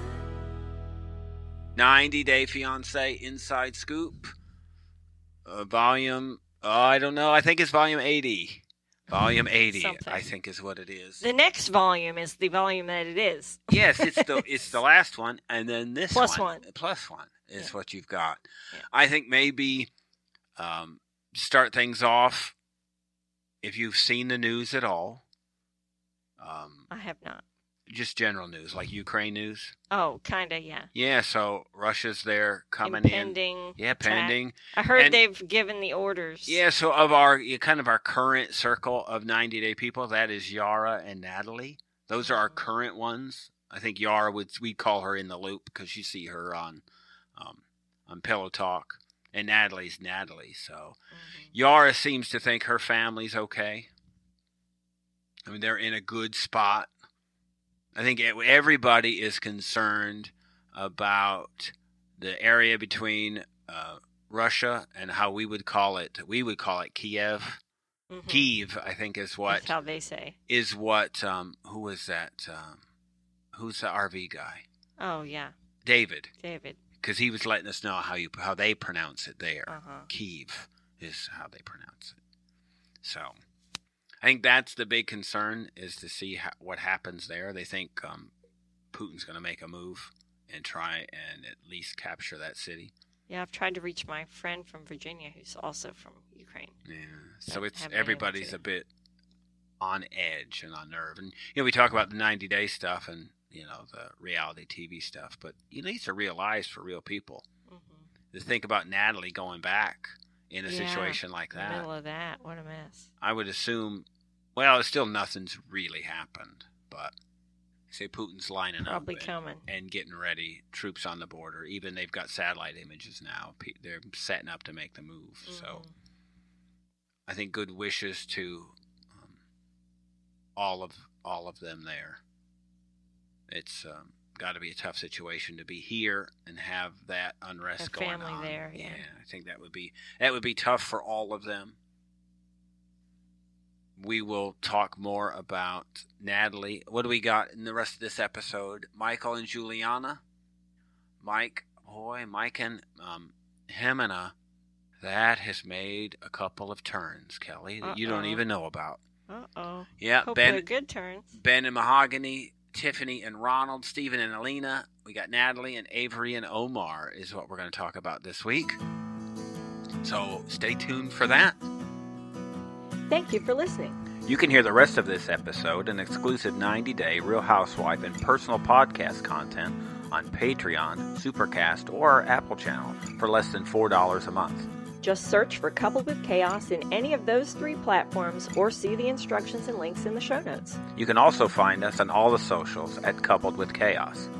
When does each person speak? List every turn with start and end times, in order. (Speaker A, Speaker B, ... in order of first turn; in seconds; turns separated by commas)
Speaker A: 1.8-4.3, Speaker A: 5.5-11.3, Speaker B: 9.7-10.3, Speaker B: 11.2-14.4, Speaker A: 13.7-19.9, Speaker B: 16.1-16.6, Speaker A: 20.6-22.6, Speaker A: 23.6-25.2, Speaker A: 26.4-26.9, Speaker B: 26.9-27.4, Speaker A: 27.9-29.8, Speaker B: 29.9-30.9, Speaker A: 30.9-35.2, Speaker B: 32.8-36.6, Speaker A: 36.5-46.8, Speaker B: 42.2-42.7, Speaker A: 47.4-51.0, Speaker B: 51.1-51.5, Speaker A: 51.5-53.9, Speaker A: 55.5-56.9, Speaker A: 58.0-67.6, Speaker B: 68.1-68.5, Speaker A: 68.3-69.7, Speaker B: 69.5-70.4, Speaker A: 70.5-72.8, Speaker A: 73.5-74.7, Speaker B: 75.0-75.5, Speaker A: 75.8-76.3, Speaker B: 76.4-76.8, Speaker A: 77.0-82.2, Speaker B: 79.7-80.1, Speaker A: 83.0-83.3, Speaker A: 84.2-88.3, Speaker A: 88.9-92.9, Speaker B: 93.3-96.8, Speaker A: 96.9-98.9, Speaker B: 97.5-98.6, Speaker A: 99.8-107.5, Speaker B: 107.7-108.1, Speaker A: 108.3-111.9, Speaker B: 110.7-113.1, Speaker A: 113.2-117.1, Speaker A: 117.9-125.8, Speaker B: 118.8-119.7, Speaker B: 125.4-125.9, Speaker A: 127.3-129.4, Speaker A: 130.6-132.2, Speaker A: 133.5-141.8, Speaker B: 137.8-139.1, Speaker A: 144.0-150.2, Speaker A: 151.2-154.3, Speaker A: 155.0-159.0, Speaker B: 157.8-158.4, Speaker B: 159.3-161.3, Speaker A: 160.0-160.7, Speaker A: 161.3-168.8, Speaker A: 170.0-171.6, Speaker B: 173.1-174.0, Speaker A: 174.3-184.7, Speaker B: 185.0-190.8, Speaker A: 191.0-194.3